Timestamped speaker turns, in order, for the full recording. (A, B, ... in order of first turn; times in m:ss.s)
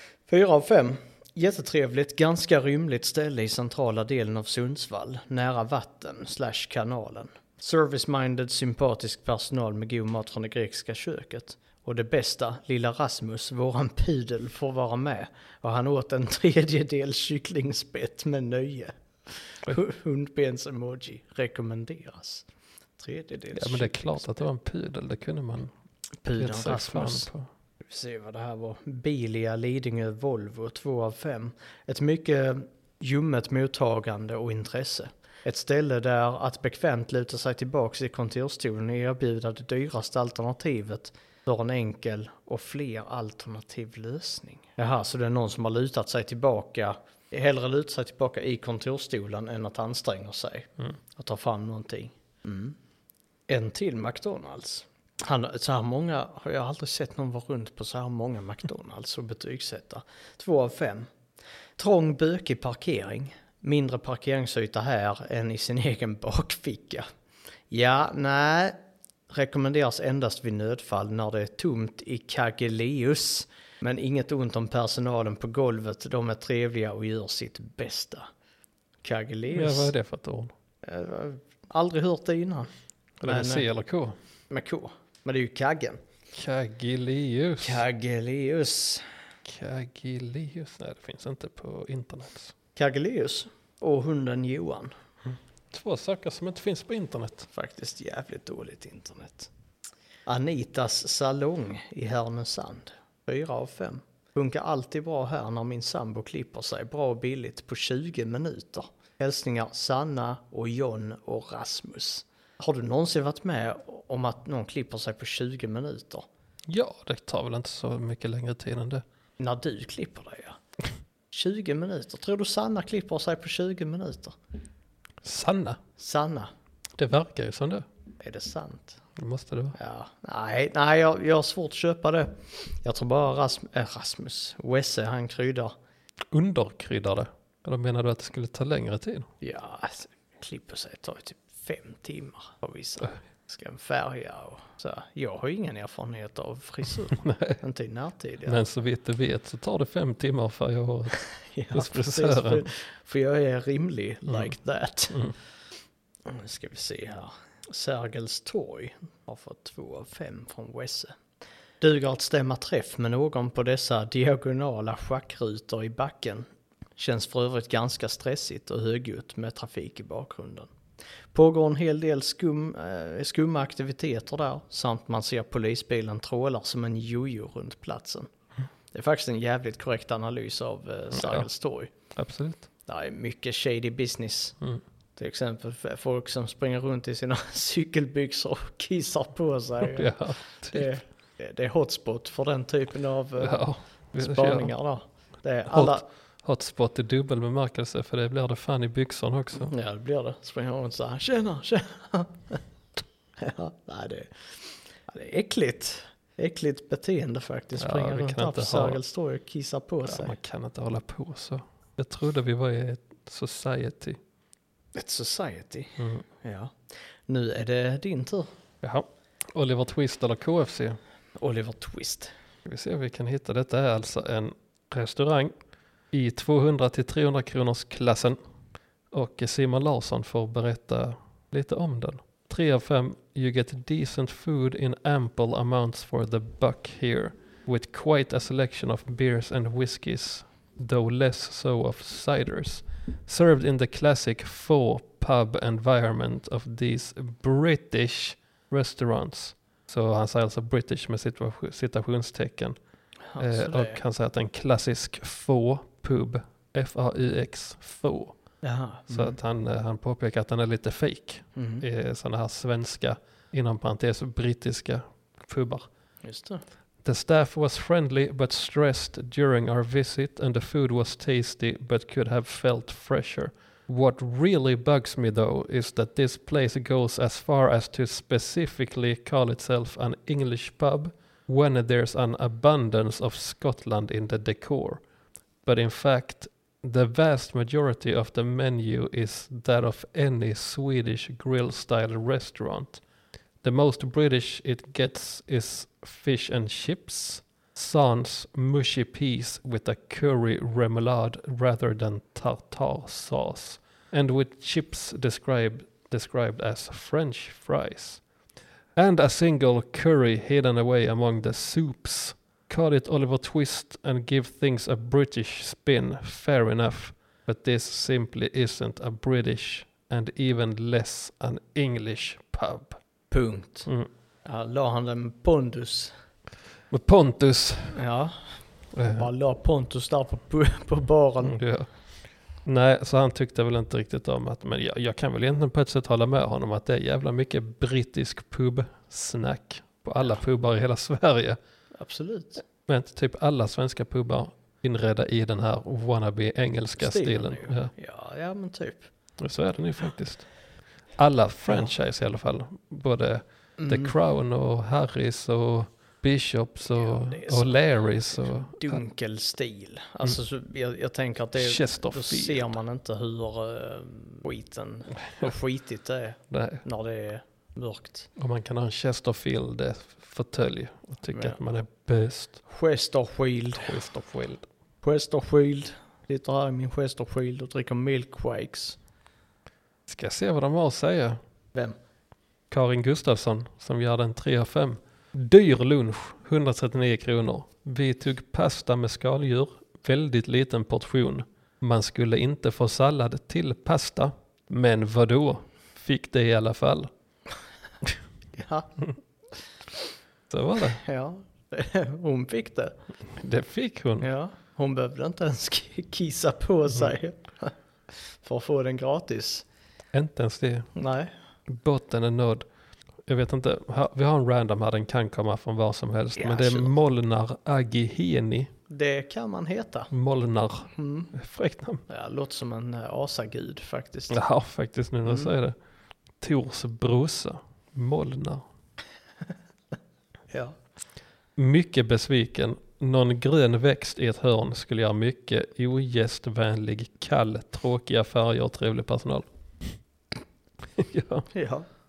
0:00.3-0:22.4 A
0:23.0-0:24.4 A
0:23.5-0:25.7 B
0:26.2-0:27.3 A
0:26.4-0:27.5 B
0:27.8-0:52.8 A
0:53.5-1:01.1 A
1:01.8-1:07.0 A
1:07.7-1:08.8 A
1:09.3-1:18.2 A
1:19.0-1:19.9 A
1:19.5-1:20.5 B
1:20.8-1:22.7 A
1:23.2-1:24.2 B
1:23.2-1:23.7 A
1:24.5-1:26.0 A
1:26.3-1:27.8 B
1:27.6-1:29.0 A
1:29.4-1:32.5 B
1:32.8-1:34.9 A
1:35.2-1:37.5 B
1:37.5-1:39.5 A
1:40.3-1:56.3 A
1:56.7-1:59.0 B
1:59.4-2:00.6 A
2:01.3-2:04.4 A
2:05.2-2:05.8 B
2:06.0-2:06.5 A
2:07.0-2:07.8 B
2:08.2-2:09.0 A
2:09.2-2:09.8 B
2:09.7-2:15.7 A
2:16.3-2:19.3 B
2:19.4-2:28.6 A
2:27.1-2:27.6 B
2:28.4-2:31.2 B
2:31.2-2:35.3 A
2:31.7-2:32.6 B
2:36.2-2:41.2 A
2:41.8-2:46.4 A
2:47.0-2:50.7 A
2:51.3-2:58.3 A
2:58.9-3:01.9 A
3:01.1-3:01.5 B
3:02.2-3:02.7 B
3:02.9-3:04.6 A
3:05.2-3:16.0 A
3:09.8-3:11.0 B
3:13.4-3:14.7 B
3:15.7-3:19.7 B
3:19.6-3:22.6 A
3:23.4-3:30.3 A
3:27.8-3:29.0 B
3:30.0-3:34.2 B
3:34.9-3:36.7 A
3:37.3-3:38.5 A
3:38.8-3:41.0 B
3:41.4-3:42.3 A
3:42.6-3:45.5 B
3:46.1-3:48.4 B
3:49.1-4:12.8 B
4:13.3-4:14.0 A
4:13.4-4:18.4 B
4:18.6-4:19.4 A
4:19.1-4:25.9 B
4:21.6-4:21.8 A
4:26.2-4:26.6 A
4:27.0-4:45.0 B
4:45.6-4:53.0 B
4:53.6-5:08.2 B
5:09.0-5:23.0 B
5:23.3-5:23.9 A
5:24.4-5:26.1 A
5:26.9-5:28.0 B
5:27.9-5:31.6 A
5:28.9-5:29.3 B
5:31.4-5:31.9 B
5:32.6-5:41.6 B
5:42.0-5:42.6 A
5:42.8-5:47.9 B
5:47.0-5:49.1 A
5:49.4-5:50.5 B
5:51.2-5:59.0 B
5:53.8-5:54.1 A
5:57.0-6:08.3 A
6:01.6-6:02.8 B
6:06.5-6:06.8 B
6:08.4-6:12.6 B
6:12.7-6:14.0 A
6:13.8-6:14.6 B
6:15.0-6:19.0 A
6:20.1-6:21.4 B
6:22.7-6:37.1 B
6:38.5-6:39.0 A
6:40.5-6:41.0 B
6:40.9-6:43.0 A
6:43.3-6:44.3 B
6:44.2-6:49.6 A
6:50.1-6:50.9 B
6:50.9-6:51.3 A
6:51.7-6:52.6 B
6:53.2-6:58.7 B
6:56.4-6:56.9 A
6:58.9-7:00.1 A
7:00.1-7:02.0 B
7:00.9-7:01.3 A
7:02.1-7:04.4 A
7:04.3-7:05.8 B
7:05.2-7:05.5 A
7:06.4-7:08.6 B
7:11.6-7:19.5 B
7:20.9-7:21.5 B
7:21.5-7:21.8 A